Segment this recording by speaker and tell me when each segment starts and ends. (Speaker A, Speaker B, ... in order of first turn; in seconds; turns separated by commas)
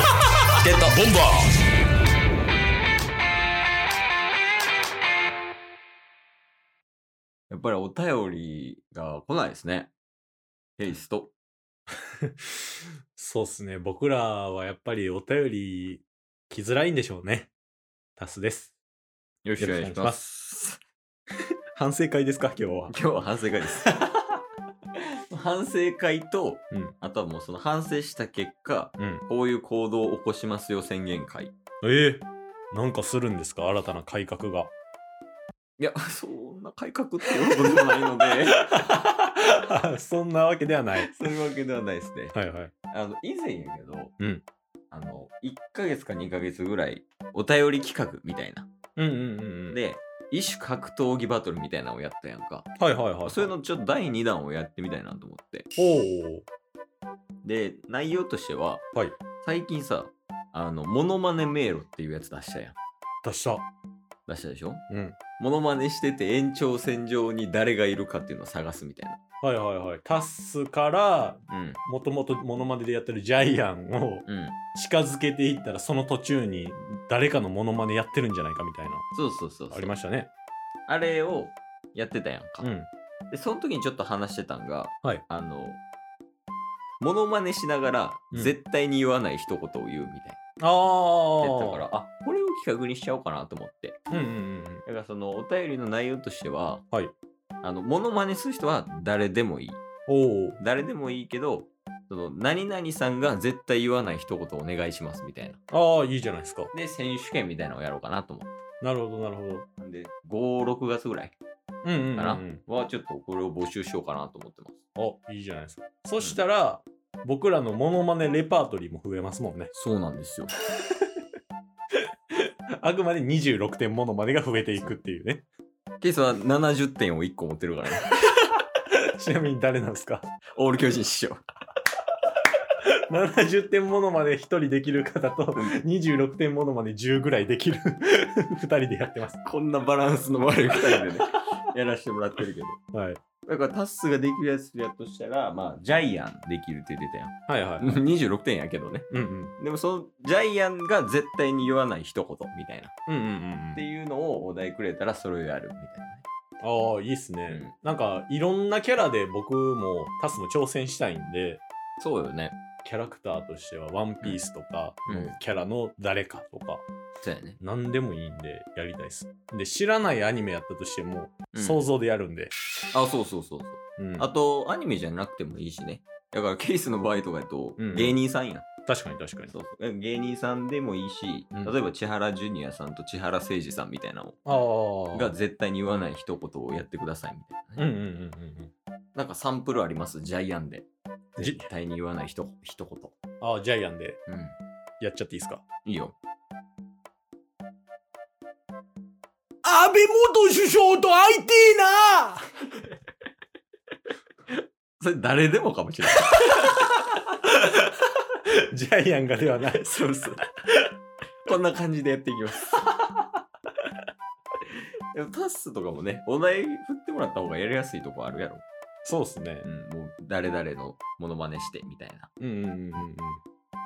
Speaker A: 0.6-1.0, Speaker B: 0.9-1.5, Speaker A: 7.5-9.9, Speaker A: 10.8-11.3, Speaker B: 13.2-17.5, Speaker B: 18.2-18.8, Speaker A: 19.4-20.8, Speaker B: 19.6-20.2, Speaker B: 21.8-23.0, Speaker A: 22.9-24.0, Speaker A: 25.3-31.5, Speaker B: 29.0-29.2, Speaker B: 31.8-34.7, Speaker A: 35.8-38.8, Speaker B: 38.3-41.1, Speaker A: 41.0-42.3, Speaker B: 42.3-42.7, Speaker A: 42.9-44.1, Speaker B: 44.2-44.4, Speaker A: 44.9-48.7, Speaker B: 49.0-49.8, Speaker A: 49.7-55.7, Speaker B: 52.8-53.5, Speaker B: 55.8-56.5, Speaker A: 57.4-58.8, Speaker A: 59.4-62.8, Speaker B: 63.2-63.6, Speaker A: 64.3-64.8, Speaker B: 64.9-65.2, Speaker A: 65.4-69.2, Speaker B: 69.4-79.1, Speaker A: 71.5-71.8, Speaker A: 74.3-74.6, Speaker A: 79.1-79.9, Speaker B: 79.7-80.3, Speaker A: 80.9-82.7, Speaker B: 82.6-82.9, Speaker A: 83.3-85.8, Speaker A: 87.0-90.4, Speaker B: 90.6-91.9, Speaker A: 91.4-94.0, Speaker B: 94.1-94.8, Speaker A: 94.9-96.8, Speaker A: 97.6-99.8, Speaker B: 100.1-100.6, Speaker A: 100.6-105.6, Speaker B: 105.7-106.7, Speaker A: 106.7-108.5, Speaker B: 108.8-109.7, Speaker A: 109.8-111.4, Speaker B: 111.8-112.6, Speaker A: 112.2-114.8, Speaker B: 115.0-119.7, Speaker A: 119.7-120.5, Speaker B: 122.8-125.4, Speaker A: 124.7-124.9, Speaker A: 126.0-128.2, Speaker B: 129.2-130.2, Speaker A: 130.6-131.4, Speaker B: 133.1-139.4, Speaker A: 139.4-142.8, Speaker B: 140.8-141.1, Speaker B: 142.9-143.2, Speaker A: 143.5-152.9, Speaker B: 147.5-148.0, Speaker B: 149.1-149.6, Speaker B: 153.1-153.8, Speaker A: 153.8-156.2, Speaker B: 156.6-161.6, Speaker A: 162.0-162.6, Speaker B: 162.8-166.8, Speaker A: 165.1-165.4, Speaker A: 167.2-167.6, Speaker B: 167.6-172.5, Speaker A: 171.5-171.8, Speaker A: 172.9-178.7, Speaker B: 174.0-174.3, Speaker B: 177.8-178.2, Speaker B: 178.8-179.5, Speaker A: 179.5-184.4, Speaker B: 184.5-185.3, Speaker A: 185.1-187.8, Speaker B: 187.8-188.7, Speaker A: 189.2-193.2, Speaker B: 191.4-191.7, Speaker B: 193.4-194.2, Speaker A: 194.3-194.6, Speaker B: 195.0-195.6, Speaker A: 195.8-196.2, Speaker B: 199.6-202.5, Speaker A: 204.5-206.8, Speaker B: 207.5-207.9, Speaker B: 208.7-209.8, Speaker A: 209.6-210.4, Speaker A: 211.5-212.9, Speaker A: 215.1-218.6, Speaker B: 219.1-219.7, Speaker A: 219.6-222.3, Speaker B: 222.4-223.4